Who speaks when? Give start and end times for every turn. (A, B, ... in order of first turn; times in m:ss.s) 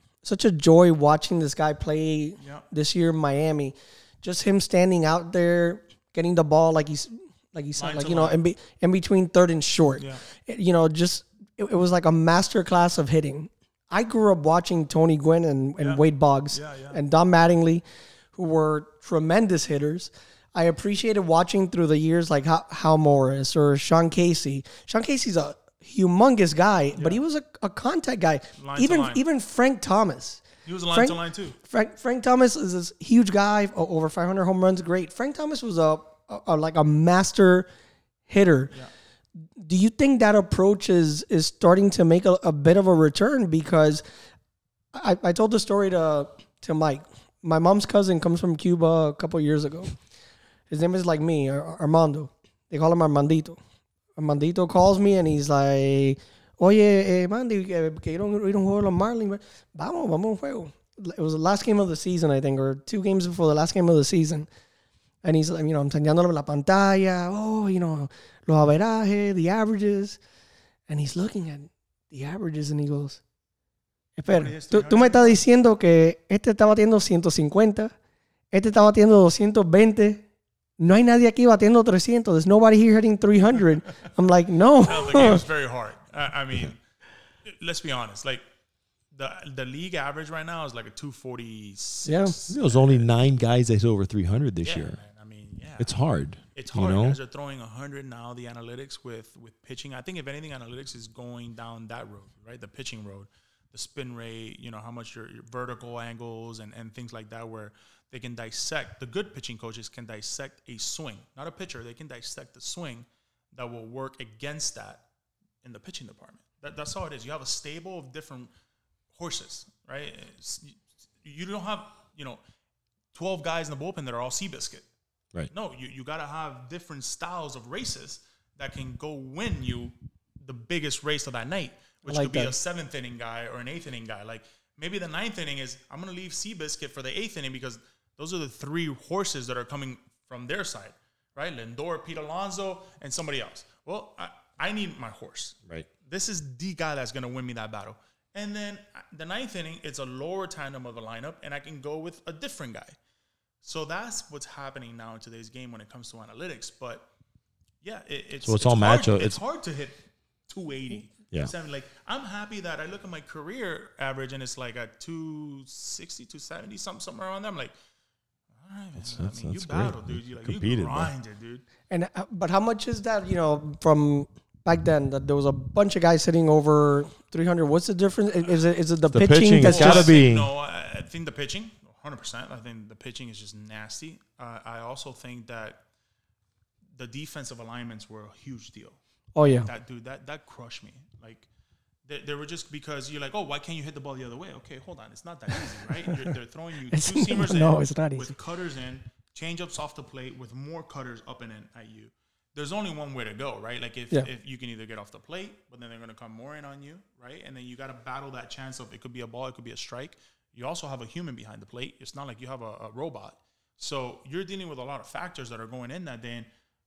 0:00.2-0:37.7 A
0:02.4-0:02.7 B
0:07.8-0:08.4 B
0:09.9-0:10.2 B
0:16.5-0:17.0 B
0:27.0-0:27.2 B
0:28.6-0:29.2 B
0:30.6-0:31.6 B
0:38.3-0:38.7 A
0:39.6-0:44.0 A
0:44.9-0:50.0 A
0:50.7-0:53.6 A
0:54.2-1:04.5 A
1:05.2-1:10.2 A
1:10.9-1:13.2 A
1:14.2-1:17.9 A
1:14.3-1:15.4 B
1:18.5-1:20.2 A
1:20.8-1:25.4 A
1:24.8-1:26.8 B
1:27.4-1:28.4 B
1:29.1-1:33.1 B
1:32.1-1:32.4 A
1:32.5-1:35.0 C
1:34.6-1:36.0 B
1:35.8-1:37.2 C
1:36.5-1:55.0 B
1:55.6-1:58.5 B
1:59.1-2:02.4 B
2:03.1-2:04.9 B
2:05.5-2:33.0 B
2:12.0-2:12.6 A
2:33.6-2:37.1 B
2:37.8-2:47.7 B
2:38.4-2:39.4 C
2:48.5-2:51.6 B
2:49.0-2:51.1 C
2:51.9-3:00.1 A
2:59.1-3:00.5 C
2:59.6-3:05.8 B
3:07.0-3:11.5 B
3:09.4-3:09.7 A
3:12.1-3:36.5 B
3:16.1-3:16.3 A
3:16.9-3:18.3 A